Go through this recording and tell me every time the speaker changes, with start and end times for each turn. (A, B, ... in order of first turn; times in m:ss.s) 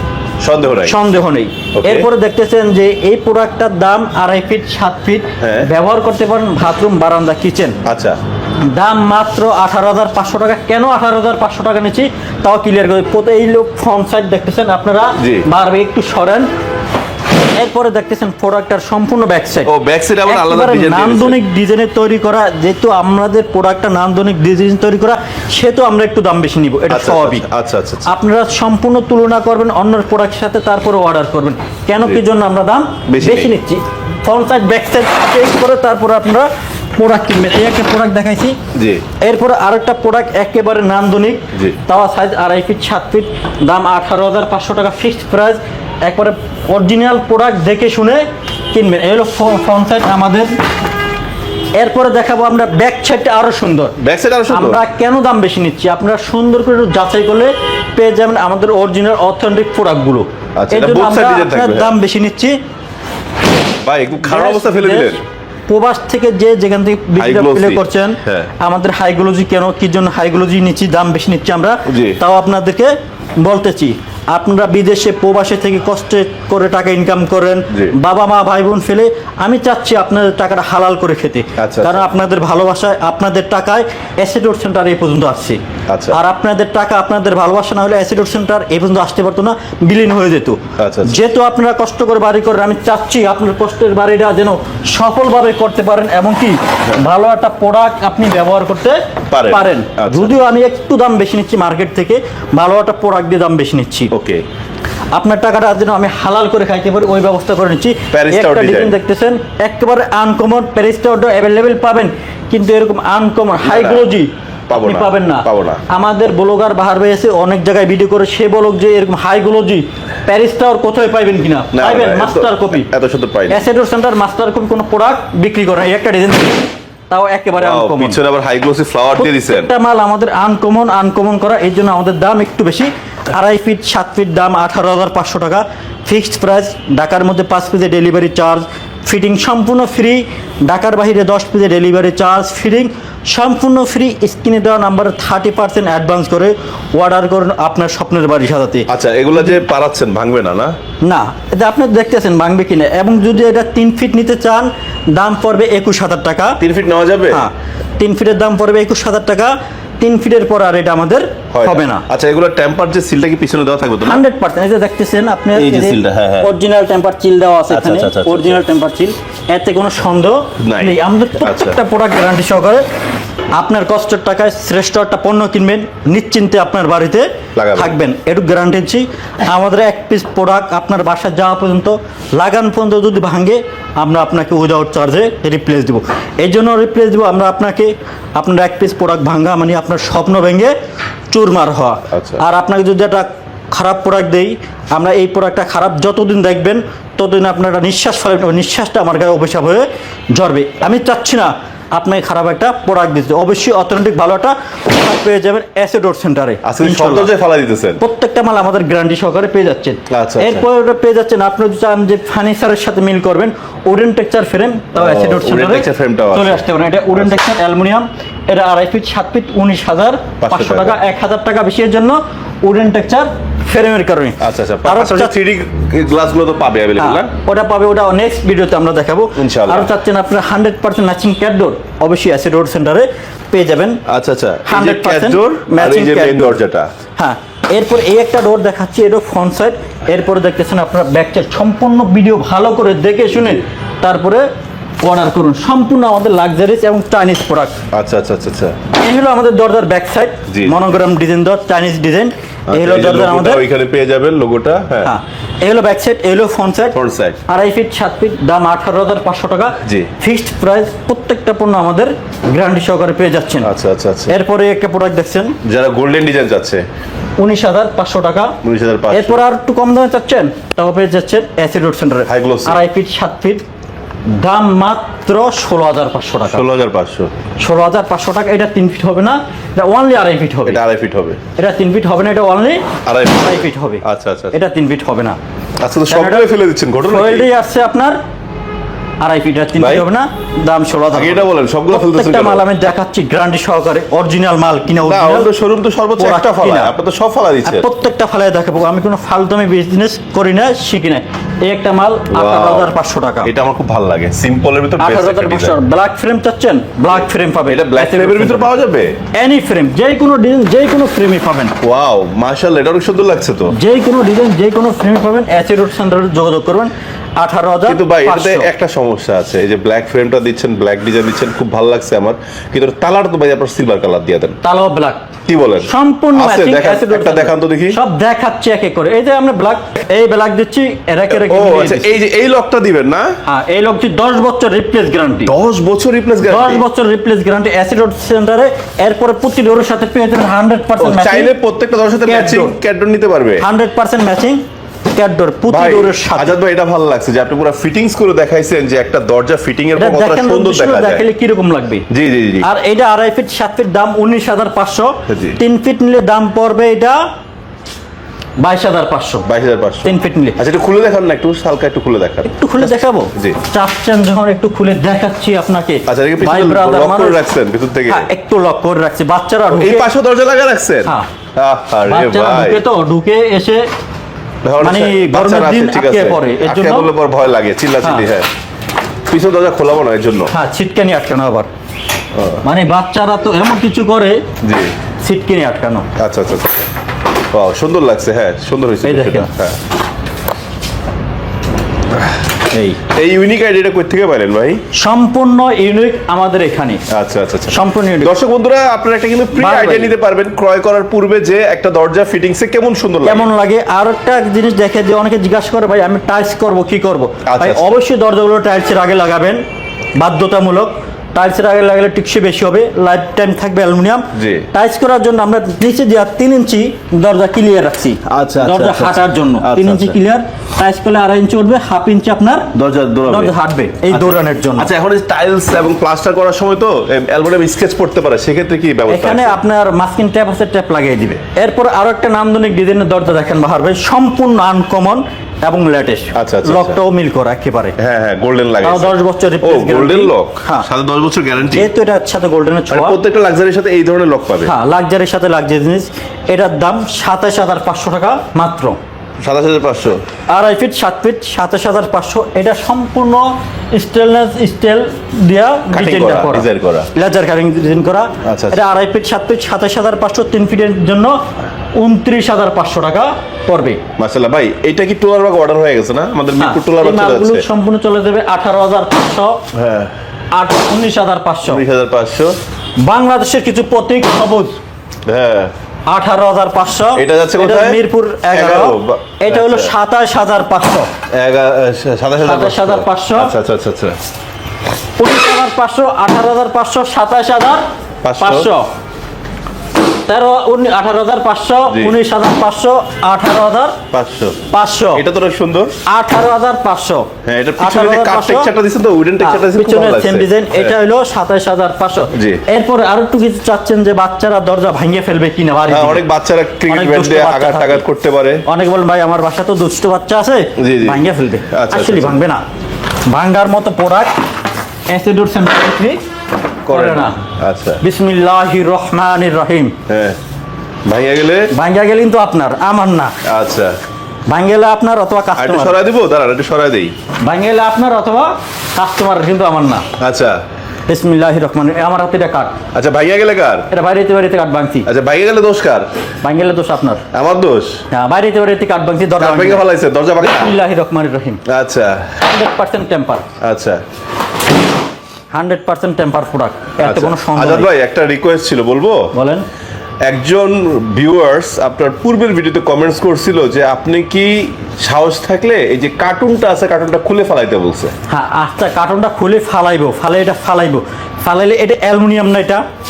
0:00.4-0:01.0 A
0:00.8-0:07.8 B
0:01.8-0:02.1 A
0:05.4-0:05.7 A
0:07.8-0:08.2 A
0:08.6-0:16.5 B
0:15.2-0:15.5 A
0:17.5-0:19.7 B
0:19.6-0:21.4 A
0:20.2-0:27.4 B
0:26.9-0:28.1 A
0:28.0-0:38.6 B
0:33.1-0:33.5 A
0:38.7-0:39.0 A
0:39.2-0:50.5 B
0:51.8-0:53.9 B
0:54.0-0:54.8 A
0:54.5-1:02.6 B
1:00.6-1:01.9 A
1:03.8-1:05.2 A
1:04.2-1:25.6 B
1:07.2-1:08.5 A
1:11.9-1:12.2 A
1:21.6-1:22.0 A
1:25.9-1:26.2 A
1:26.1-1:44.1 B
1:30.8-1:31.2 A
1:39.3-1:40.4 A
1:44.1-1:44.4 A
1:45.1-2:02.9 B
1:48.1-1:49.0 A
1:53.6-1:54.1 A
1:54.7-1:55.8 A
2:01.7-2:03.6 A
2:03.5-2:08.2 B
2:07.6-2:09.7 A
2:09.2-2:28.9 B
2:28.9-2:30.7 A
2:31.0-2:36.6 B
2:36.6-2:37.4 A
2:37.3-2:42.0 B
2:41.5-2:44.2 A
2:44.0-2:52.8 B
2:45.5-2:46.5 A
2:47.7-2:48.6 A
2:50.6-2:51.8 A
2:53.6-3:10.7 B
2:57.5-2:57.9 A
3:11.3-3:27.3 B
3:12.1-3:12.4 A
3:26.6-3:28.0 A
3:28.0-3:45.3 B
3:30.1-3:30.6 A
3:35.0-3:37.4 A
3:40.4-3:41.0 A
3:44.4-3:47.3 A
3:47.0-3:54.0 B
3:49.4-3:49.9 A
3:54.0-3:56.9 A
3:54.7-3:56.6 B
3:57.2-4:04.4 B
4:05.0-4:07.8 B
4:07.9-4:08.8 A
4:09.0-4:13.6 B
4:10.5-4:10.8 A
4:12.7-4:15.1 A
4:15.0-4:17.0 B
4:16.9-4:17.4 A
4:17.5-4:23.7 B
4:19.8-4:20.1 A
4:23.6-4:24.3 A
4:24.3-4:25.6 B
4:25.6-4:26.8 A
4:27.4-4:28.6 B
4:28.6-4:29.4 A
4:29.1-4:33.6 B
4:32.3-4:32.8 A
4:34.3-4:36.6 B
4:36.5-4:37.3 A
4:37.6-4:40.8 B
4:40.6-4:41.4 A
4:41.6-4:42.8 B
4:43.0-4:44.6 A
4:43.4-4:45.4 B
4:45.8-4:47.5 A
4:46.1-4:46.4 B
4:47.0-4:48.2 B
4:49.2-4:55.5 B
4:49.8-4:50.0 A
4:51.1-4:52.6 A
4:55.0-4:57.9 A
4:56.2-4:56.9 B
4:57.6-5:03.5 B
5:02.3-5:05.8 A
5:05.0-5:08.7 B
5:07.2-5:09.1 A
5:09.3-5:11.7 B
5:11.8-5:13.7 A
5:13.7-5:18.7 B
5:17.9-5:24.6 A
5:24.6-5:25.3 B
5:25.5-5:28.0 A
5:25.8-5:32.1 B
5:31.3-5:33.4 A
5:33.4-5:35.5 B
5:35.5-5:36.8 A
5:36.4-5:41.5 B
5:41.0-5:43.6 A
5:42.2-5:42.8 B
5:43.6-5:46.5 B
5:45.7-5:51.2 A
5:50.0-5:52.0 B
5:52.1-5:52.7 A
5:52.6-5:57.2 B
5:55.3-5:55.6 A
5:58.6-5:59.4 B
5:59.4-6:03.6 A
6:00.0-6:00.6 B
6:02.4-6:07.4 B
6:06.1-6:08.3 A
6:08.1-6:10.1 B
6:09.7-6:12.8 A
6:12.1-6:13.8 B
6:14.6-6:18.5 A
6:14.8-6:17.1 B
6:18.0-6:18.3 B
6:19.3-6:20.5 A
6:20.5-6:21.7 B
6:22.3-6:22.6 A
6:22.6-6:24.4 B
6:24.6-6:24.9 A
6:25.2-6:26.1 B
6:26.2-6:26.7 A
6:27.5-6:29.8 A
6:29.0-6:29.5 B
6:32.7-6:33.0 B
6:33.1-6:34.8 A
6:34.9-6:37.0 B
6:37.1-6:43.5 A
6:37.7-6:38.3 B
6:39.5-6:40.1 B
6:43.2-6:49.6 B
6:47.5-6:47.9 A
6:50.2-7:02.7 B
6:54.3-6:54.7 A
6:58.3-7:00.2 A
7:02.7-7:03.5 A
7:03.3-7:04.9 B
7:04.1-7:09.6 A
7:09.1-7:18.0 B
7:16.3-7:17.0 A
7:18.0-7:21.9 A
7:18.8-7:20.8 B
7:21.7-7:23.2 B
7:22.9-7:24.7 A
7:24.6-7:29.0 B
7:29.4-7:30.2 A
7:30.5-7:41.3 B
7:35.9-7:37.1 A
7:38.4-7:38.8 A
7:42.0-7:44.0 B
7:44.2-7:47.6 A
7:46.6-7:49.6 B
7:49.7-7:50.1 A
7:50.5-7:51.8 B
7:51.6-7:52.5 A
7:53.0-7:54.8 B
7:55.2-7:55.7 A
7:56.1-8:01.1 B
7:57.2-7:59.9 A
8:01.3-8:04.2 A
8:02.4-8:03.5 B
8:05.2-8:07.8 B
8:08.2-8:08.7 A
8:08.4-8:08.9 B
8:10.2-8:14.0 B
8:11.9-8:12.2 A
8:14.1-8:14.6 A
8:14.7-8:15.2 B
8:15.1-8:15.9 A
8:16.0-8:18.7 B
8:17.4-8:20.9 A
8:19.4-8:26.2 B
8:22.3-8:22.6 A
8:25.9-8:28.6 A
8:26.9-8:28.0 B
8:28.6-8:32.6 B
8:30.8-8:32.4 A
8:33.3-8:34.3 B
8:35.1-8:36.2 B
8:36.9-8:38.0 A
8:36.9-8:37.4 B
8:38.0-8:40.0 B
8:40.1-8:40.4 A
8:41.0-8:41.7 A
8:41.7-8:43.3 B
8:43.4-8:44.0 A
8:44.5-8:46.0 B
8:45.6-8:47.1 A
8:47.4-8:50.1 B
8:50.2-8:50.6 A
8:51.1-8:52.8 B
8:52.9-8:53.9 A
8:53.9-8:55.1 B
8:55.0-8:56.1 A
8:56.4-8:57.2 B
8:57.3-8:58.0 A
8:58.1-8:59.8 B
8:59.4-9:00.7 A
9:00.4-9:01.6 B
9:01.6-9:02.4 A
9:02.4-9:03.4 B
9:03.6-9:04.0 A
9:05.5-9:07.9 B
9:07.0-9:09.3 A
9:09.3-9:09.6 B
9:10.2-9:18.1 A
9:18.3-9:22.8 B